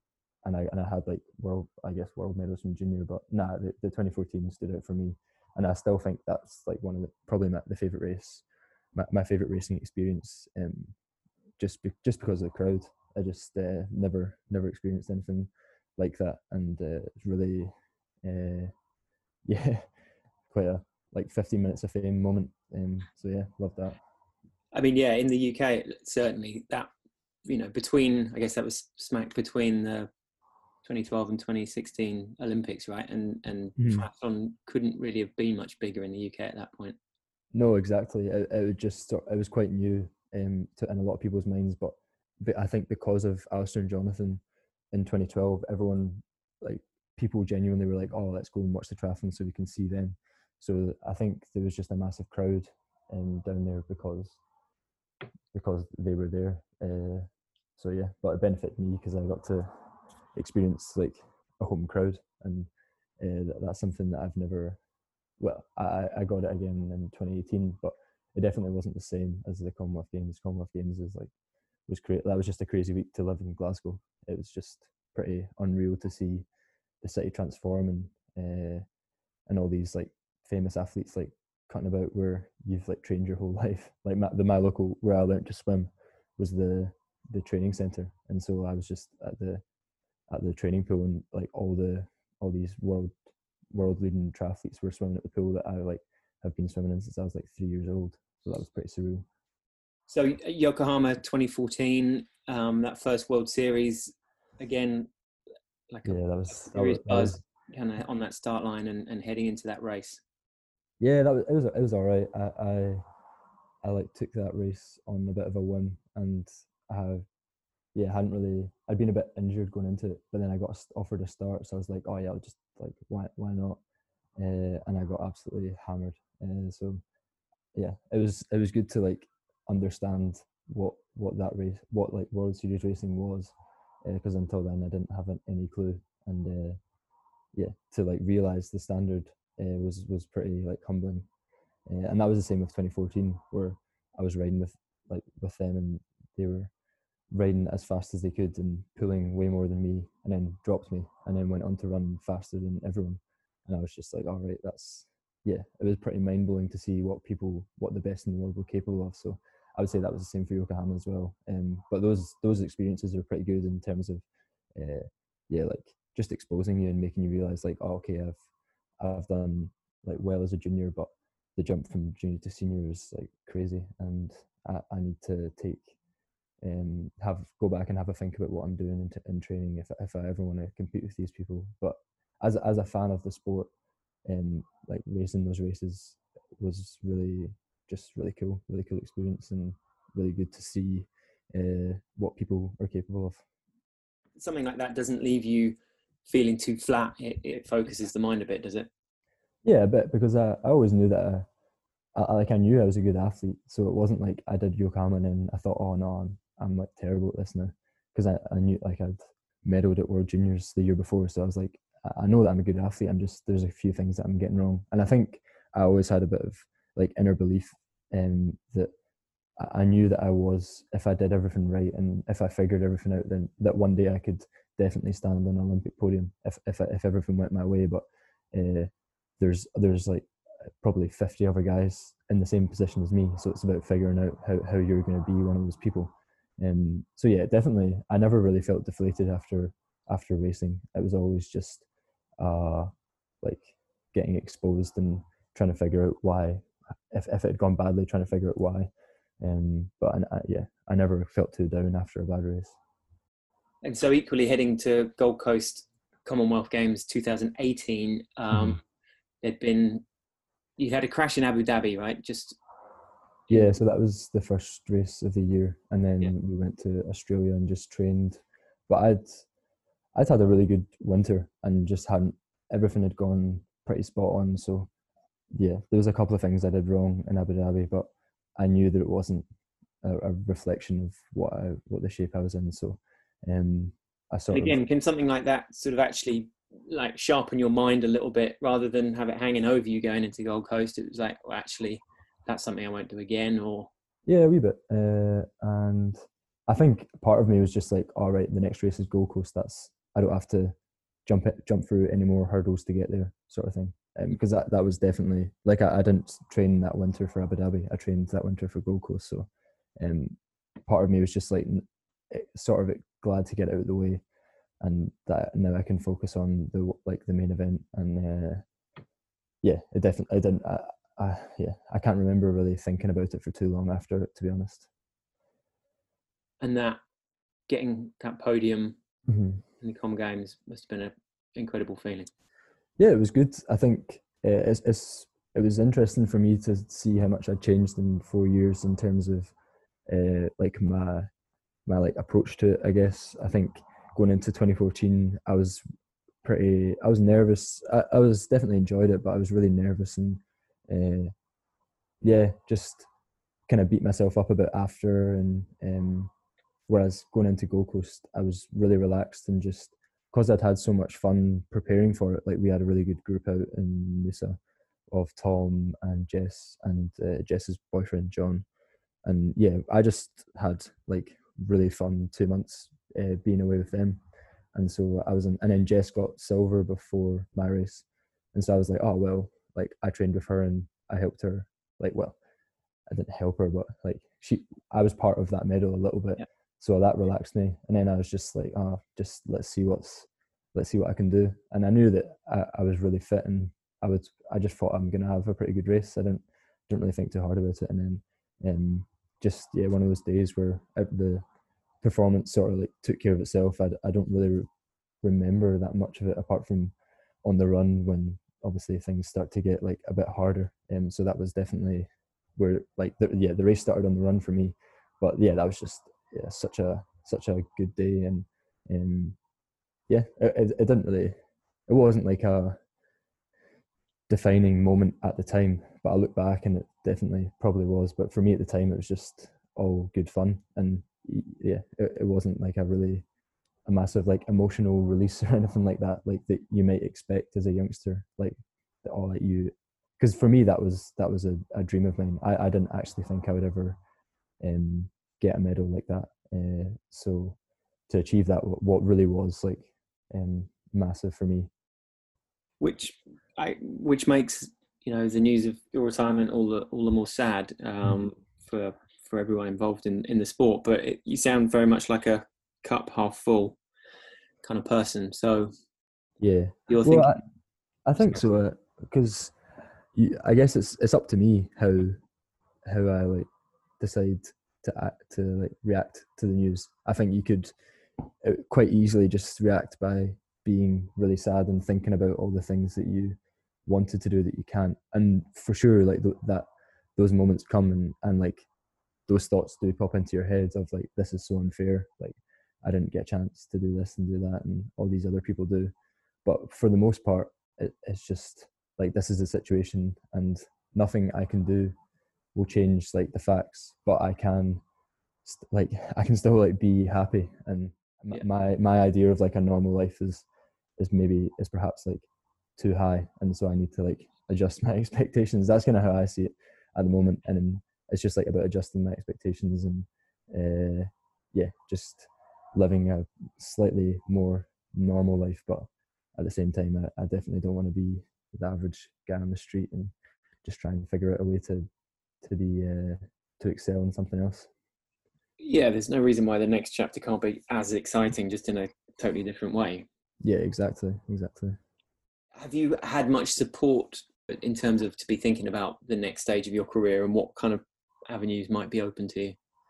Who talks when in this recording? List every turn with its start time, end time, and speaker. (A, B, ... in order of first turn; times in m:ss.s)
0:00.4-0:10.9 A
0:11.6-0:17.7 A
0:18.2-0:18.7 A
0:19.5-0:19.8 A
0:20.5-0:24.0 A
0:24.7-0:26.9 B
0:27.4-0:30.1 B
0:30.8-0:37.0 B
0:33.8-0:34.1 A
0:37.5-0:54.4 A
0:55.5-1:02.7 A
1:03.2-1:04.8 A
1:05.4-1:11.3 A
1:11.9-1:16.4 A
1:17.0-1:18.8 A
1:19.5-1:29.6 A
1:30.3-1:33.1 A
1:33.7-1:39.2 A
1:40.1-1:45.1 B
1:45.9-1:50.2 B
1:46.0-1:47.4 A
1:51.0-1:53.0 A
1:53.8-1:57.2 A
1:57.9-2:03.8 A
2:04.4-2:07.0 A
2:07.7-2:13.5 A
2:14.0-2:16.8 A
2:17.5-2:21.2 A
2:21.9-2:26.7 A
2:27.3-2:44.2 A
2:44.8-2:48.4 A
2:49.0-2:55.9 A
2:56.6-3:03.7 A
3:04.3-3:13.4 A
3:14.4-3:18.9 B
3:19.6-3:21.5 A
3:22.2-3:38.9 A
3:39.6-3:50.3 A
3:50.8-4:01.8 A
4:02.4-4:12.8 A
4:13.8-4:18.8 B
4:19.4-4:20.0 B
4:20.8-4:22.6 B
4:23.5-4:23.8 B
4:23.5-4:29.4 A
4:30.2-4:34.9 A
4:35.5-4:39.4 A
4:40.0-4:44.8 A
4:44.5-4:53.9 B
4:54.3-5:00.7 A
5:01.2-5:09.5 A
5:10.0-5:10.4 A
5:10.9-5:14.2 A
5:14.8-5:18.6 A
5:19.6-5:24.9 A
5:26.6-5:27.0 B
5:27.7-5:29.0 B
5:29.3-5:29.6 A
5:29.8-5:32.3 B
5:33.0-5:39.5 A
5:40.1-5:41.3 A
5:41.9-5:45.8 A
5:46.4-5:51.3 A
5:52.2-5:53.1 A
5:53.7-5:56.3 A
5:56.9-6:04.6 A
6:05.1-6:08.6 A
6:09.2-6:14.2 A
6:14.7-6:22.4 A
6:23.1-6:41.4 A
6:42.0-6:44.7 A
6:45.2-6:59.4 A
7:00.1-7:01.4 A
7:01.9-7:02.8 A
7:04.3-7:13.2 A
7:13.9-7:24.0 A
7:24.6-7:27.6 A
7:28.1-7:31.7 A
7:32.8-7:43.8 B
7:44.6-7:45.7 B
7:46.4-7:47.4 A
7:46.9-7:47.4 B
7:48.0-7:49.5 A
7:50.1-7:52.2 A
7:52.9-7:53.5 A
7:54.0-7:57.7 A
7:58.4-8:06.6 A
8:07.2-8:08.6 A
8:09.3-8:15.9 A
8:16.4-8:21.9 A
8:22.5-8:24.8 A
8:25.4-8:30.4 A
8:31.0-8:51.8 A
8:52.4-8:54.7 A
8:55.6-9:00.0 B
9:00.4-9:01.8 A
9:02.6-9:09.6 B